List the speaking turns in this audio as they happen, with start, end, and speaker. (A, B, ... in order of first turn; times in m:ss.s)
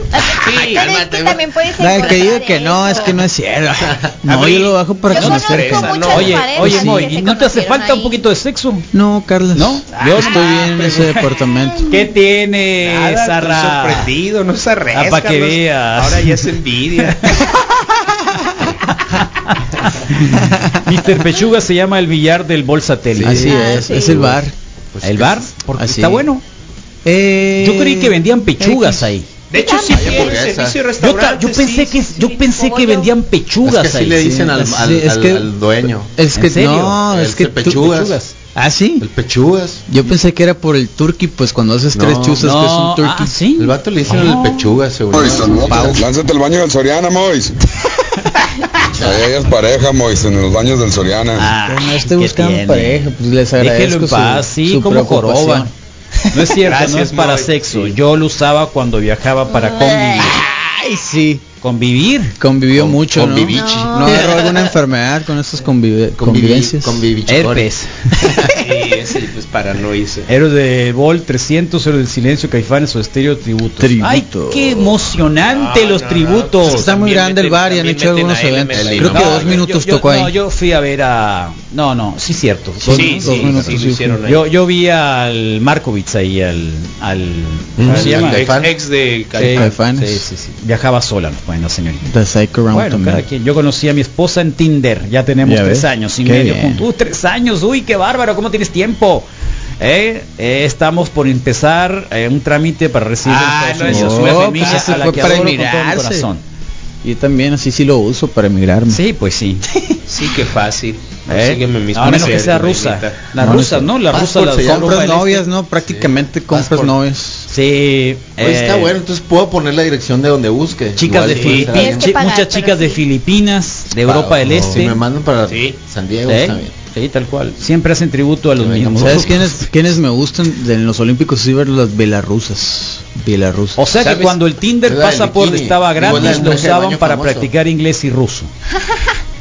0:00.1-0:03.2 A
0:00.4-0:00.9 B
0:00.5-0:01.4 C
0:01.8-0:06.0 D
0:02.0-0:02.3 C
0:04.2-0:06.9 B
0:05.1-0:08.2 A
0:05.1-0:08.8 E
0:06.6-0:07.0 D
0:08.9-0:11.9 D
0:09.5-0:11.0 E
0:09.9-0:11.1 B
0:11.9-0:14.1 E
0:12.8-0:17.4 B
0:14.9-0:17.4 E
0:19.5-0:23.6 E
0:20.4-0:20.7 D
0:23.1-0:24.4 C
0:23.2-0:24.5 D
0:23.4-0:24.2 A
0:24.9-0:25.5 C
0:25.0-0:26.4 E
0:25.8-0:26.3 D
0:27.0-0:29.1 D
0:27.6-0:29.3 E
0:29.5-0:32.0 B
0:29.6-0:30.3 A
0:29.9-0:30.8 C
0:31.0-0:34.2 E
0:32.1-0:33.1 A
0:33.6-0:36.1 C
0:34.1-0:35.5 D
0:36.2-0:37.8 D
0:36.4-0:38.3 E
0:37.0-0:38.2 C
0:38.5-0:39.0 D
0:39.0-0:39.9 C
0:39.9-0:43.3 D
0:41.9-0:42.5 C
0:42.4-0:43.8 E
0:43.6-0:46.0 C
0:44.1-0:44.6 D
0:45.1-0:47.6 F
0:45.3-0:46.0 D
0:48.9-0:49.2 C
0:49.0-0:51.5 F
0:51.4-0:53.0 E
0:51.6-0:56.4 D
0:53.6-0:55.7 E
0:56.3-1:00.4 E
0:56.6-0:57.9 B
0:59.5-1:00.3 A
1:00.2-1:01.4 D
1:01.6-1:02.4 E
1:02.4-1:07.0 D
1:02.7-1:04.6 C
1:03.5-1:04.5 A
1:06.2-1:07.7 C
1:07.3-1:08.1 E
1:08.6-1:10.3 B
1:10.3-1:16.9 E
1:13.8-1:14.8 D
1:15.4-1:19.6 B
1:16.7-1:20.3 D
1:18.7-1:19.6 C
1:19.0-1:28.4 E
1:22.8-1:24.2 D
1:22.9-1:24.5 B
1:27.8-1:28.7 C
1:27.9-1:29.7 B
1:29.4-1:32.0 E
1:29.4-1:30.2 D
1:32.0-1:33.2 D
1:32.7-1:39.3 E
1:35.4-1:36.8 D
1:39.8-1:46.4 E
1:43.2-1:45.6 B
1:43.9-1:46.3 D
1:47.0-1:49.0 D
1:48.9-1:49.6 E
1:50.1-1:53.3 B
1:51.3-1:55.4 E
1:53.4-1:54.0 D
1:54.1-1:55.0 C
1:54.5-1:57.5 D
1:55.9-1:56.9 C
1:57.5-1:58.9 E
1:58.4-2:02.1 C
2:01.0-2:05.0 E
2:01.3-2:01.7 B
2:01.7-2:03.0 A
2:04.0-2:06.7 C
2:05.5-2:05.8 B
2:06.3-2:09.6 E
2:08.6-2:09.4 C
2:09.0-2:13.8 D
2:13.8-2:18.5 E
2:14.0-2:14.3 B
2:14.8-2:17.5 C
2:16.1-2:16.4 D
2:18.8-2:19.2 A